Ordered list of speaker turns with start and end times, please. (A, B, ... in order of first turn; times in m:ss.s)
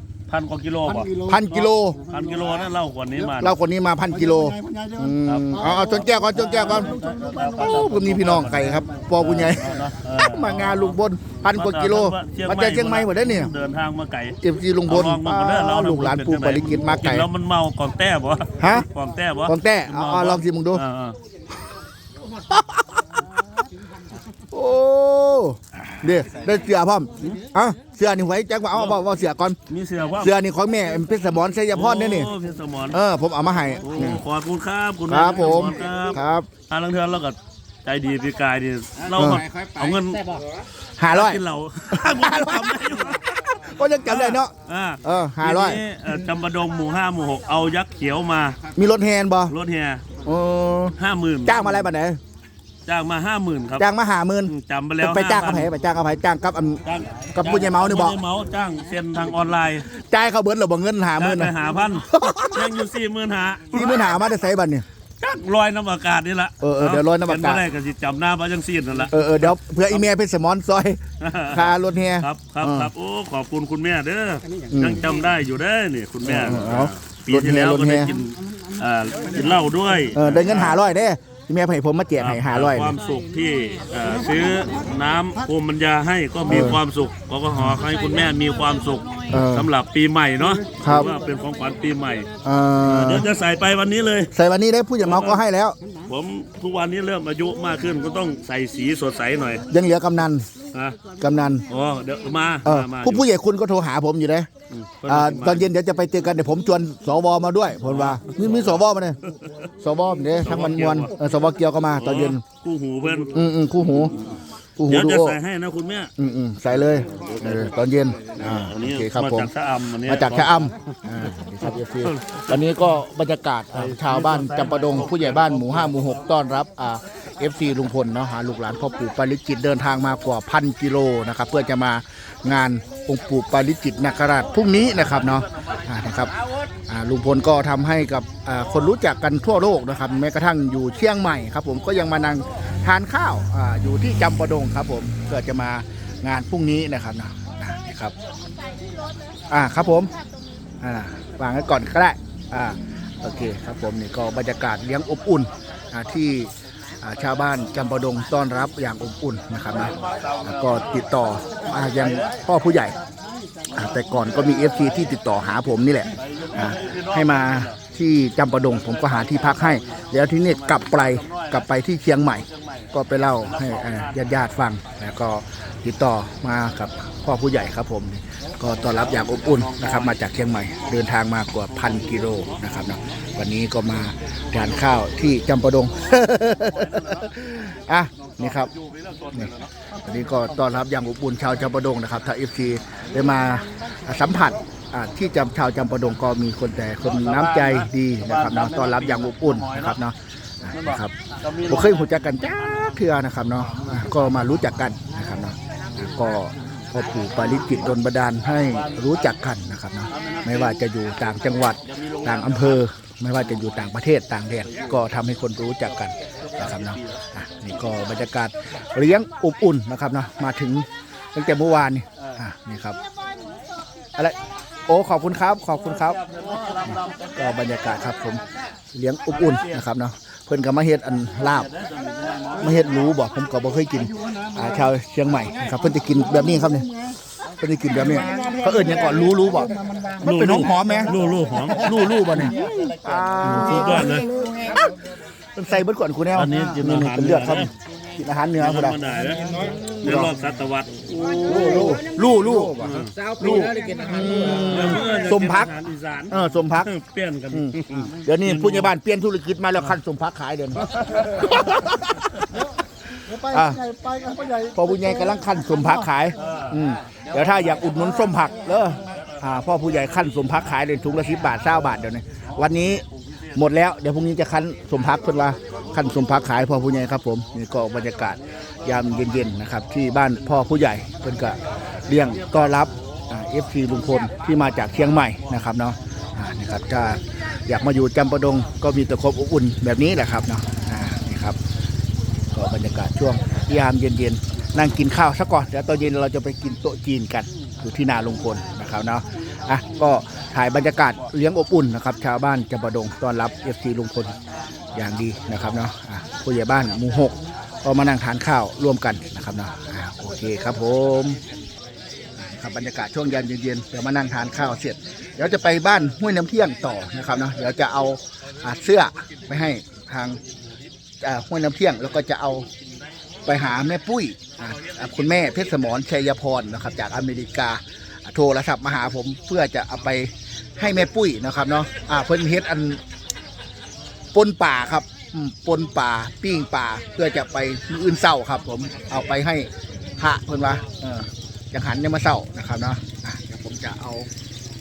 0:00.3-0:01.2 A
0:01.2-0:02.0 B
0:02.1-0:03.5 A
0:03.4-0:13.5 B
0:04.3-0:05.0 C
0:05.2-0:21.2 A
0:14.4-0:17.3 B
0:18.6-0:18.9 B
0:19.5-0:20.8 B
0:22.5-0:23.6 B
0:24.5-0:29.6 B
0:29.7-0:30.3 A
0:30.2-0:32.3 B
0:31.7-0:33.0 A
0:32.9-0:34.2 B
0:33.8-0:40.4 A
0:35.1-0:36.5 B
0:39.1-0:39.4 B
0:41.0-0:44.5 B
0:41.1-0:43.4 A
0:44.0-0:48.6 A
0:45.0-0:45.8 B
0:48.7-0:49.5 B
0:49.5-0:50.0 A
0:50.2-0:50.9 B
0:51.0-0:51.8 A
0:51.4-0:52.2 B
0:52.8-0:53.9 A
0:53.8-0:56.8 B
0:54.5-0:55.7 A
0:56.8-0:59.9 A
0:57.3-0:58.2 B
0:59.9-1:02.8 B
1:01.2-1:04.2 A
1:03.7-1:04.8 B
1:05.2-1:10.0 A
1:06.6-1:07.6 B
1:09.1-1:12.9 B
1:11.2-1:20.8 A
1:14.7-1:15.0 B
1:16.2-1:18.1 B
1:20.1-1:23.0 B
1:22.2-1:32.3 A
1:26.5-1:26.8 B
1:29.3-1:29.7 B
1:30.8-1:31.1 B
1:32.4-1:33.2 B
1:32.8-1:34.3 A
1:34.3-1:35.8 B
1:35.0-1:35.4 A
1:36.0-1:39.6 A
1:39.7-1:40.5 B
1:40.7-1:41.0 A
1:41.2-1:41.6 B
1:41.7-1:43.2 A
1:42.6-1:44.5 B
1:44.7-1:45.7 A
1:45.1-1:49.2 B
1:47.8-1:49.6 A
1:49.8-1:52.4 B
1:50.4-1:51.1 A
1:52.0-1:53.4 A
1:53.3-1:54.1 B
1:54.1-1:56.1 A
1:54.8-1:55.4 B
1:56.2-1:59.5 B
1:57.0-1:57.7 A
1:58.4-2:01.4 A
2:00.0-2:16.3 B
2:02.0-2:02.6 A
2:03.7-2:06.1 A
2:16.9-2:28.1 B
2:29.5-2:30.1 B
2:30.8-2:43.0 B
2:39.8-2:40.7 A
2:42.0-2:42.4 A
2:43.7-3:08.7 B
2:46.2-2:47.8 A
2:48.6-2:51.6 A
2:52.4-2:54.3 A
2:58.8-3:00.2 A
3:01.7-3:02.9 A
3:06.5-3:07.4 A
3:08.2-3:09.9 A
3:09.3-3:21.1 B
3:17.0-3:20.0 A
3:20.7-3:23.0 A
3:21.7-3:43.0 B
3:28.7-3:29.2 A
3:30.1-3:30.8 A
3:31.9-3:32.8 A
3:34.7-3:35.0 A
3:36.5-3:37.2 A
3:44.2-3:46.2 B
3:46.2-3:47.5 A
3:47.4-3:48.4 B
3:48.9-3:51.7 B
3:49.3-3:49.8 A
3:51.5-3:52.9 A
3:52.6-4:09.1 B
3:58.3-4:00.2 C
4:00.2-4:02.5 A
4:02.6-4:03.0 C
4:03.4-4:04.3 A
4:04.4-4:04.7 C
4:06.3-4:07.7 A
4:08.6-4:11.8 A
4:09.4-4:09.9 C
4:09.8-4:10.3 B
4:11.4-4:12.4 C
4:11.4-4:15.7 B
4:12.8-4:13.2 A
4:13.2-4:14.6 C
4:14.6-4:18.9 A
4:16.3-4:16.9 B
4:17.5-4:22.7 B
4:21.1-4:21.7 A
4:23.3-4:24.0 B
4:23.3-4:24.8 C
4:24.6-4:33.0 B
4:26.4-4:26.8 A
4:33.5-4:51.6 B
4:52.5-5:04.4 B
5:04.9-5:11.4 B
5:12.4-5:20.4 B
5:21.2-5:22.7 B
5:23.4-5:33.0 B
5:34.3-5:44.3 B